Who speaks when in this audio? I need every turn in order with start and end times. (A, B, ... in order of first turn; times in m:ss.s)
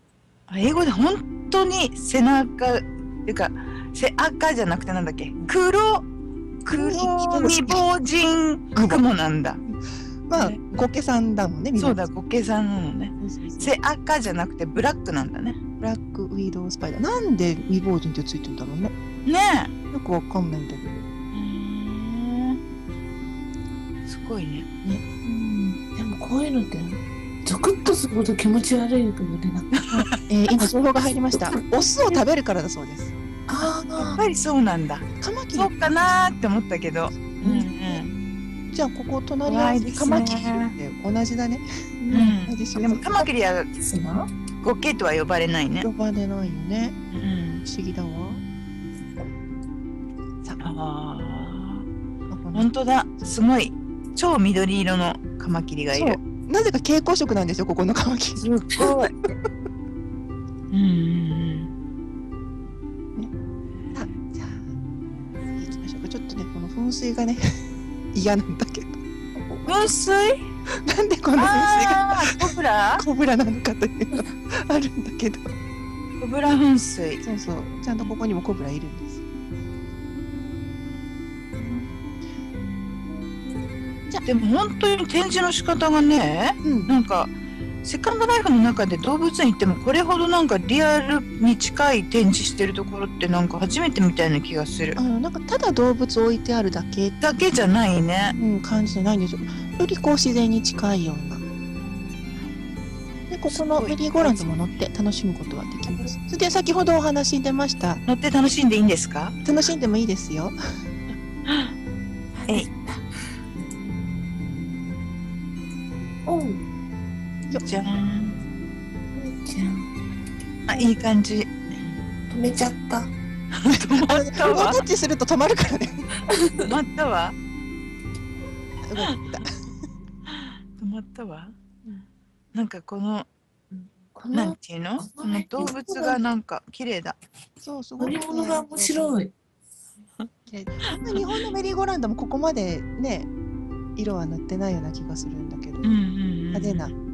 0:00.5-0:06.0 A
0:06.6-0:07.8 B
0:06.7-0:09.6 A
0:08.8-0:09.0 B
0:10.3-0:12.0 B
0:10.4-0:10.7 A
0:11.8-0:15.6 A
0:13.2-0:13.7 B
0:15.8-0:18.9 B
0:19.3-0:19.7 A
0:19.9-0:21.1 B
0:21.3-0:22.6 A
0:24.1-0:24.7 A
0:25.2-0:29.7 C
0:29.8-0:30.2 A
0:30.2-0:33.1 B
0:33.5-0:34.2 C
0:34.2-0:38.1 A
0:35.2-0:35.8 B
0:37.4-0:38.0 B
0:38.7-0:43.3 B
0:39.5-0:40.8 A
0:42.0-0:42.4 C
0:42.1-0:43.7 A
0:43.8-0:44.3 C
0:44.6-0:45.9 A
0:45.8-0:47.0 B
0:47.1-0:47.6 A
0:47.6-0:48.4 B
0:50.6-0:51.9 A
0:52.3-0:52.7 B
0:52.5-0:56.2 A
0:55.9-0:58.9 B
0:58.4-0:59.1 A
1:00.7-1:01.7 A
1:03.8-1:04.2 A
1:04.0-1:04.7 B
1:05.6-1:09.0 B
1:09.6-1:10.4 A
1:10.8-1:15.5 B
1:11.4-1:13.0 A
1:16.2-1:17.2 A
1:17.2-1:19.2 B
1:20.2-1:20.7 C
1:23.1-1:24.1 C
1:24.2-1:27.3 A
1:26.6-1:26.9 B
1:27.8-1:35.0 A
1:35.0-1:37.2 B
1:37.2-1:38.4 A
1:38.4-1:41.4 B
1:43.3-1:48.0 B
1:43.5-1:44.5 A
1:48.1-1:49.4 A
1:49.4-1:50.6 B
1:51.5-1:51.7 A
1:52.4-1:53.0 C
1:56.3-1:56.6 C
1:57.7-1:58.4 A
1:59.1-1:59.9 C
2:00.7-2:01.6 A
2:02.3-2:03.1 C
2:03.6-2:04.8 A
2:04.0-2:06.1 B
2:06.3-2:06.7 C
2:06.6-2:07.4 A
2:08.8-2:09.5 B
2:10.3-2:11.5 A
2:12.5-2:13.3 A
2:14.2-2:16.2 C
2:14.3-2:17.2 A
2:17.6-2:19.2 B
2:18.0-2:19.3 C
2:20.5-2:23.3 B
2:20.9-2:21.2 A
2:24.0-2:25.9 B
2:25.8-2:26.9 A
2:26.5-2:26.9 B